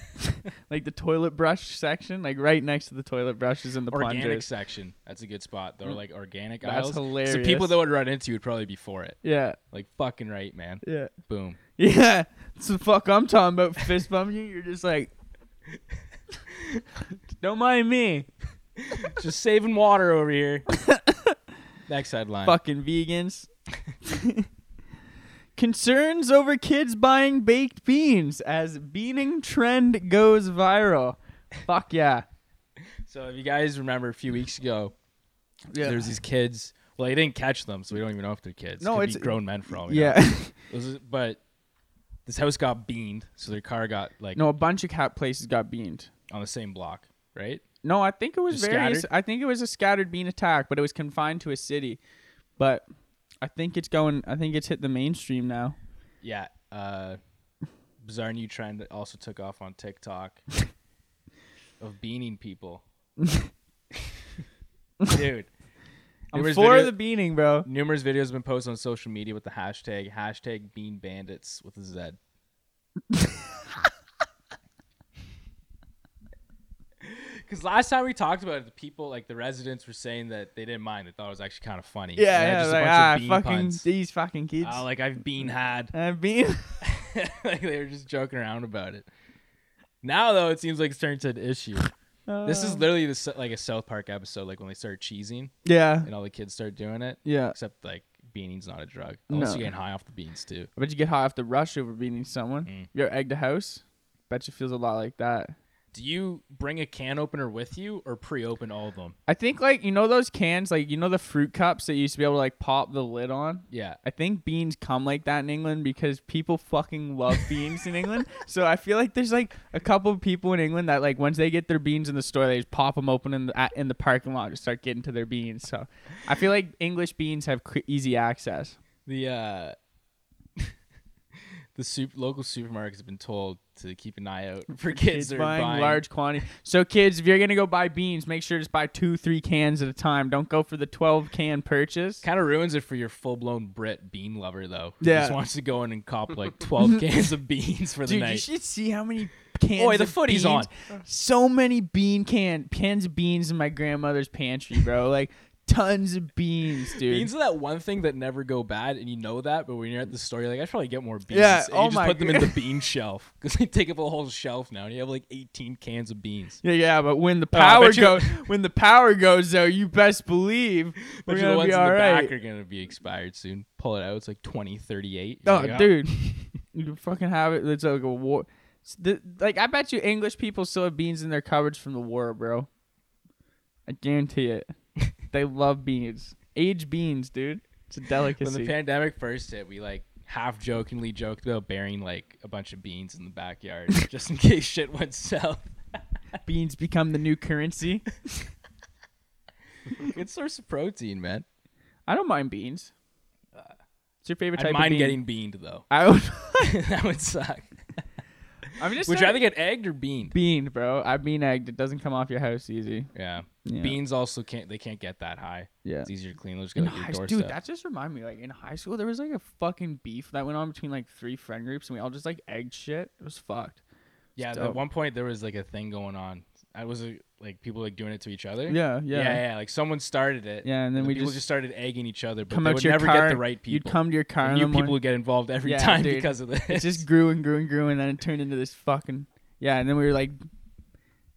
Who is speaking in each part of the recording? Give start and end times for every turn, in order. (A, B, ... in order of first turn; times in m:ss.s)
0:00.7-0:04.5 A
0:03.9-0:09.2 B
0:06.6-0:07.7 A
0:09.2-0:09.6 A
0:09.7-0:11.6 B
0:10.8-0:11.1 A
0:11.8-0:15.1 A
0:17.4-0:18.3 A
0:18.9-0:20.6 B
0:20.7-0:21.4 A
0:21.9-0:22.6 B
0:22.4-0:23.5 A
0:24.0-0:24.5 A
0:25.6-0:32.2 A
0:33.0-0:34.9 B
0:35.7-0:36.2 A
0:35.8-0:41.4 B
0:38.8-0:40.5 A
0:42.2-0:44.4 B
0:44.3-0:46.1 A
0:46.3-0:47.6 B
0:47.8-0:52.0 A
0:48.5-0:49.1 B
0:52.6-0:52.9 A
0:53.4-0:55.8 A
0:56.2-0:57.2 B
0:58.0-1:00.4 B
1:01.8-1:02.8 B
1:05.1-1:05.5 B
1:06.3-1:07.7 A
1:06.3-1:07.0 B
1:07.6-1:12.2 B
1:17.0-1:23.8 B
1:22.2-1:24.8 A
1:24.6-1:25.9 B
1:25.9-1:26.8 A
1:26.8-1:29.1 B
1:30.0-1:31.9 B
1:32.3-1:32.8 A
1:32.4-1:40.7 B
1:35.6-1:36.1 A
1:37.2-1:37.6 A
1:39.3-1:39.7 A
1:40.8-1:45.5 A
1:45.9-1:49.2 B
1:49.3-2:08.8 A
1:53.7-1:54.0 B
2:09.0-2:09.8 B
2:11.7-2:16.0 B
2:14.9-2:22.2 A
2:22.2-2:28.4 B
2:25.0-2:25.4 A
2:28.0-2:37.3 A
2:29.7-2:30.7 B
2:37.0-2:46.6 B
2:41.3-2:42.6 A
2:46.6-2:52.3 A
2:47.5-2:48.4 B
2:51.1-2:56.5 B
2:55.4-3:02.7 A
3:03.9-3:04.7 A
3:05.3-3:08.7 A
3:08.4-3:16.0 B
3:16.4-3:18.1 A
3:20.0-3:21.4 B
3:22.1-3:22.9 A
3:24.2-3:25.2 A
3:24.5-3:25.8 B
3:25.9-3:26.8 A
3:26.6-3:28.0 B
3:28.8-3:29.4 A
3:29.0-3:30.3 B
3:30.3-3:33.1 A
3:33.1-3:37.6 B
3:33.6-3:34.0 A
3:35.8-3:36.1 A
3:36.8-3:43.8 A
3:44.4-3:57.0 B
3:44.5-3:44.8 A
3:48.7-3:49.4 A
3:50.6-3:51.4 A
3:52.5-3:55.0 A
3:55.6-4:00.4 A